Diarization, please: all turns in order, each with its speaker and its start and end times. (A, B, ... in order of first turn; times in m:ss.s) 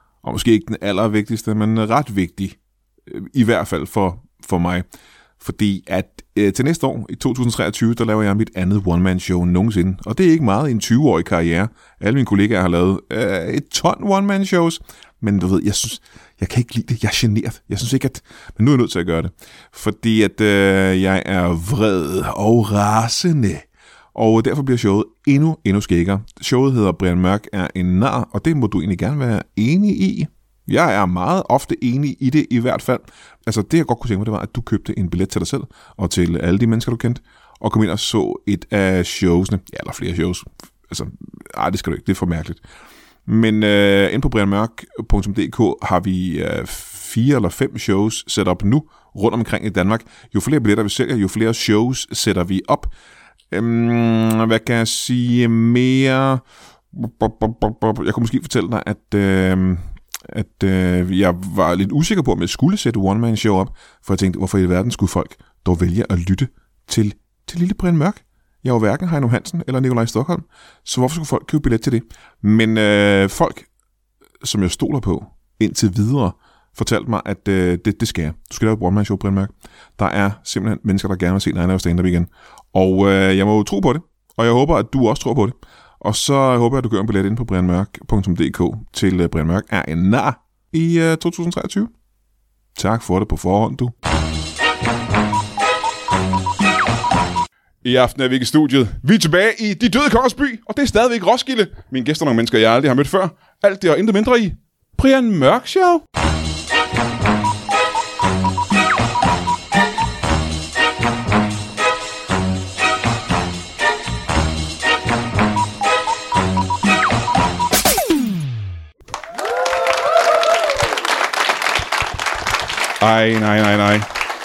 0:00.2-0:04.8 A
0:05.4-0:42.6 A
0:43.2-0:52.9 A
0:53.5-0:56.4 A
0:56.9-1:13.7 A
1:14.4-1:31.9 A
1:32.7-1:33.9 A
1:37.8-1:46.0 A
2:03.0-2:04.1 A